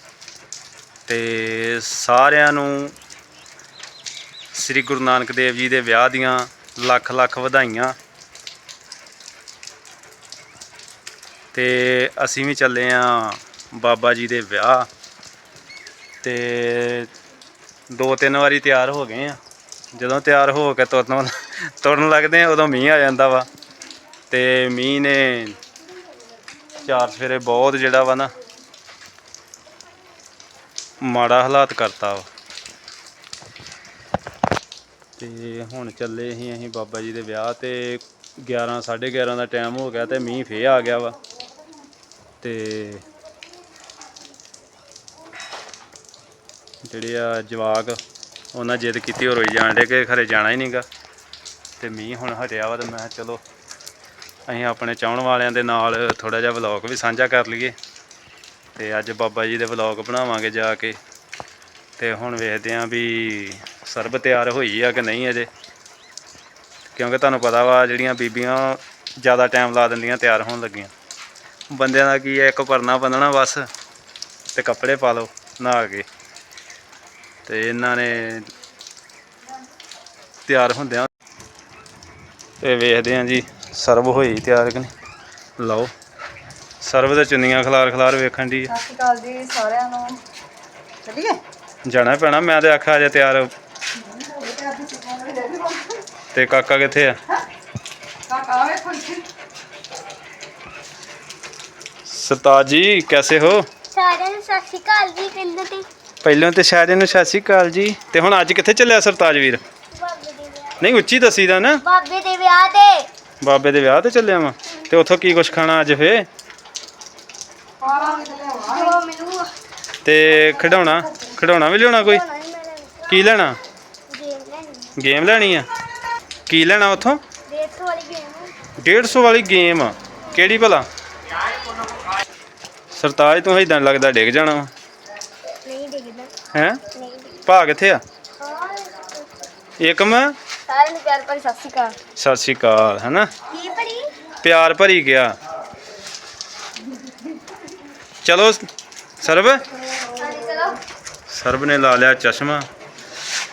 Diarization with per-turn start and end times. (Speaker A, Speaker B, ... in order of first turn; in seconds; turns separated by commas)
Speaker A: 1.1-3.0, Speaker A: 4.5-8.0, Speaker A: 11.5-14.9, Speaker A: 16.2-17.1, Speaker A: 17.9-19.4, Speaker A: 19.9-23.5, Speaker A: 24.3-25.6, Speaker A: 26.8-28.3, Speaker A: 31.0-32.3, Speaker A: 35.2-41.2, Speaker A: 42.4-43.0, Speaker A: 46.9-48.0, Speaker A: 48.5-50.9, Speaker A: 51.8-53.4, Speaker A: 54.5-57.8, Speaker A: 58.8-61.0, Speaker A: 62.0-65.5, Speaker A: 66.9-70.9, Speaker A: 71.7-73.7, Speaker A: 74.5-76.1, Speaker A: 77.5-78.5, Speaker A: 80.5-81.1, Speaker A: 82.6-84.9, Speaker A: 85.6-85.9, Speaker A: 86.8-88.8, Speaker B: 88.8-90.2, Speaker B: 91.0-91.4, Speaker A: 91.9-93.5, Speaker B: 94.2-95.9, Speaker A: 96.3-97.2, Speaker B: 98.3-99.2, Speaker A: 102.1-103.7, Speaker C: 103.9-105.9, Speaker A: 106.2-109.6, Speaker C: 109.9-110.9, Speaker A: 110.8-111.8, Speaker C: 111.8-113.1, Speaker A: 113.4-116.3, Speaker B: 117.8-118.7, Speaker C: 117.9-119.5, Speaker A: 120.0-122.2, Speaker C: 122.0-123.3, Speaker A: 123.1-123.6, Speaker C: 124.1-124.9, Speaker A: 125.0-125.7, Speaker A: 126.5-127.2, Speaker C: 127.5-128.5, Speaker A: 128.8-130.8, Speaker A: 133.0-134.7, Speaker C: 135.7-136.3, Speaker A: 136.5-136.8, Speaker C: 136.9-137.4, Speaker A: 137.5-138.0, Speaker C: 138.4-139.2, Speaker A: 139.8-140.3, Speaker C: 140.7-142.0, Speaker A: 142.2-143.3, Speaker C: 143.5-144.1, Speaker A: 144.4-145.3, Speaker A: 148.2-148.7, Speaker A: 149.2-149.7, Speaker C: 150.0-150.8, Speaker A: 151.3-152.7